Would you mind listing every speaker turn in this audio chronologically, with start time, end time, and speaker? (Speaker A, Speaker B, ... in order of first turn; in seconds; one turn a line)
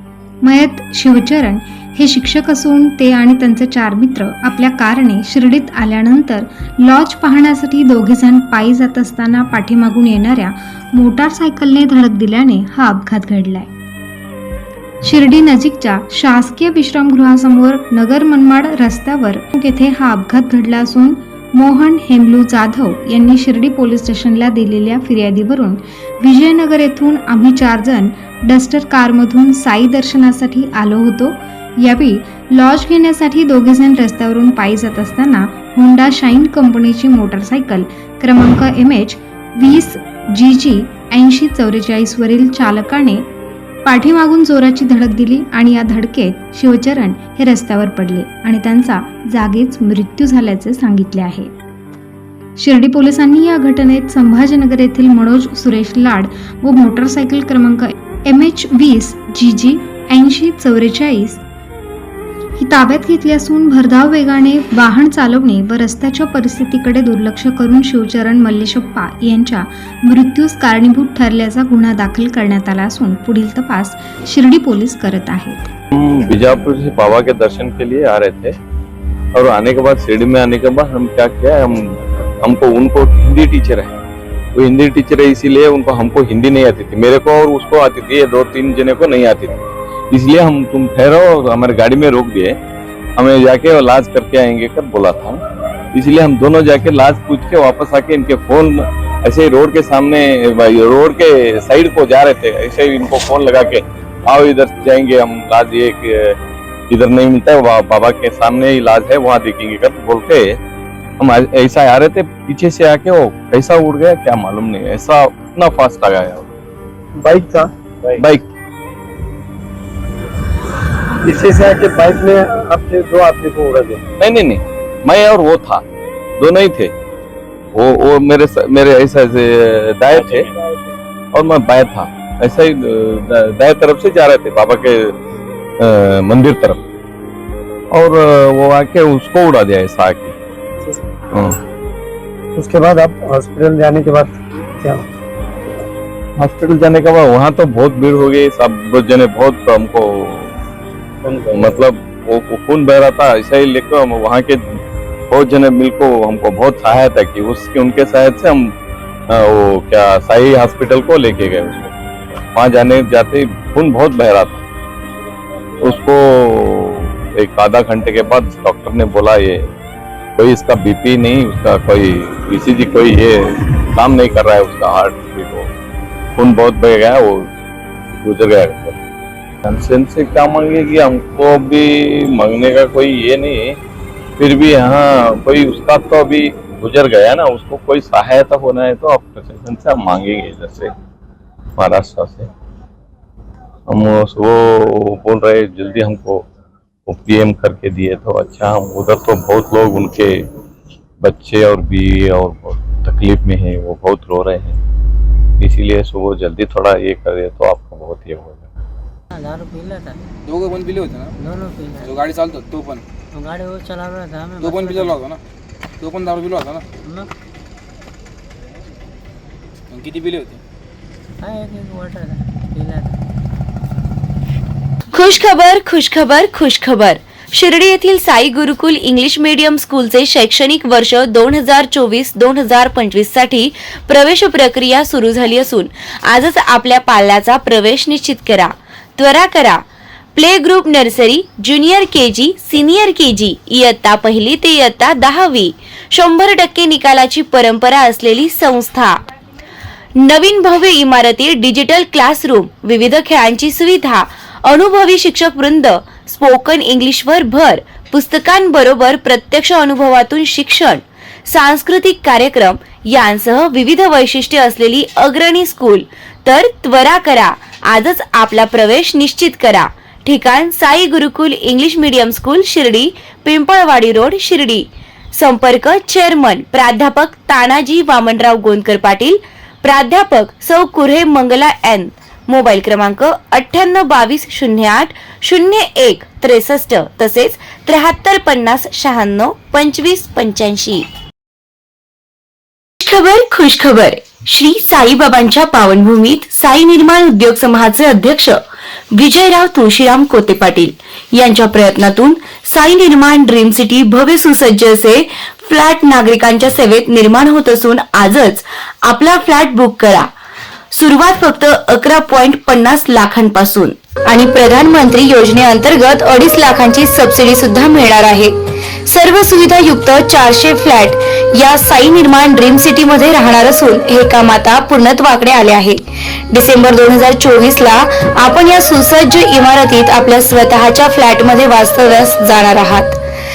Speaker A: 0.4-13.7
Speaker A: 15.0-43.2
Speaker A: 43.8-51.5
Speaker A: 52.6-61.4
Speaker A: 62.6-75.7
Speaker B: 75.9-78.5
Speaker B: 79.3-84.0
Speaker B: 84.5-89.6
Speaker B: 90.1-92.6
Speaker B: 93.2-95.4
Speaker B: 95.9-106.4
Speaker B: 106.9-110.6
Speaker B: 111.2-116.5
Speaker C: 117.2-118.2
Speaker B: 118.2-118.4
Speaker C: 121.2-124.0
Speaker B: 124.2-125.8
Speaker B: 126.4-126.9
Speaker B: 127.7-130.5
Speaker C: 130.1-130.5
Speaker B: 131.3-135.1
Speaker B: 135.8-136.8
Speaker B: 137.9-140.3
Speaker B: 141.3-141.6
Speaker C: 142.6-145.0
Speaker B: 146.4-150.5
Speaker C: 151.2-151.7
Speaker B: 151.5-154.6
Speaker B: 155.3-158.7
Speaker B: 159.3-161.9
Speaker B: 162.5-164.6
Speaker B: 165.8-169.7
Speaker B: 170.4-175.7
Speaker B: 176.3-177.5
Speaker B: 178.2-179.0
Speaker B: 179.6-183.8
Speaker B: 184.4-190.9
Speaker B: 191.8-192.5
Speaker B: 193.9-196.4
Speaker B: 197.1-200.4
Speaker B: 201.2-204.8
Speaker B: 205.6-208.7
Speaker D: 209.3-210.2
Speaker E: 210.5-211.2
Speaker D: 211.4-212.2
Speaker E: 212.2-213.0
Speaker D: 213.3-215.3
Speaker E: 214.7-215.4
Speaker E: 216.0-216.8
Speaker D: 217.0-217.3
Speaker E: 219.9-220.6
Speaker D: 221.4-223.2
Speaker F: 225.1-239.8
Speaker F: 240.3-249.2
Speaker F: 250.2-291.1
Speaker F: 293.0-298.6
Speaker F: 299.1-310.3
Speaker F: 310.9-318.5
Speaker F: 319.1-333.2